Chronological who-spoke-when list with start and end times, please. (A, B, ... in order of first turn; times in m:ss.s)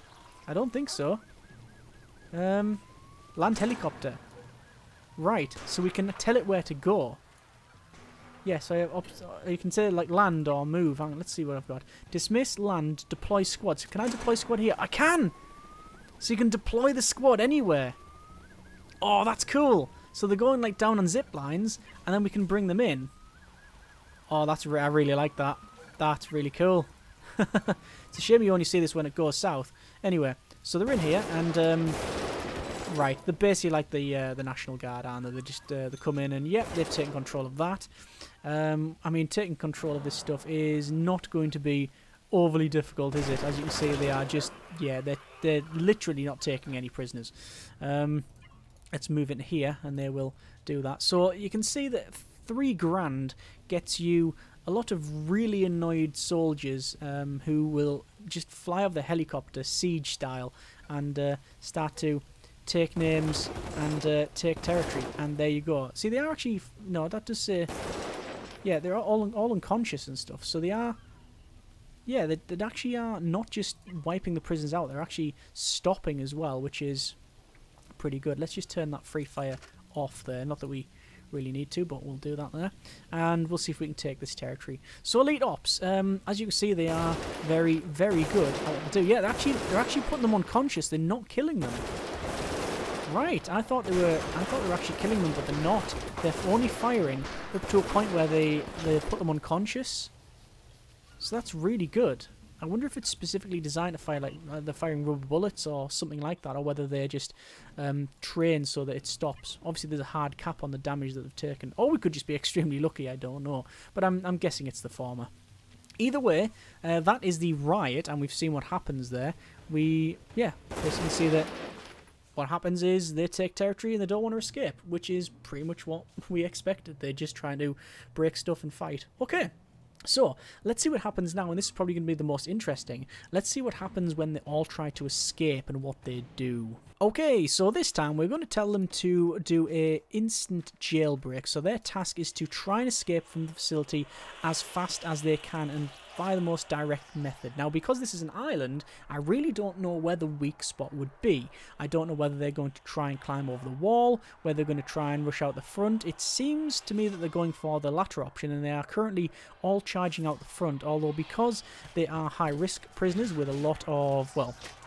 0:00.5-0:01.2 A
0:02.3-0:02.8 A
0:03.3-0:04.2 A
0:05.2-0:07.2 A
0:08.4-0:15.4 A
0:16.2-0:18.0 A
0:19.0-0:23.1 A
0:24.3-0:32.0 A
0:32.9-0:37.9 A
0:38.4-0:48.2 A
0:48.9-1:07.7 A
1:08.6-1:11.0 A
1:12.0-1:17.2 A
1:18.0-1:31.9 A
1:33.0-1:40.1 A
1:41.2-1:55.3 A
1:56.0-2:01.5 A
2:02.3-2:09.5 A
2:10.1-2:44.6 A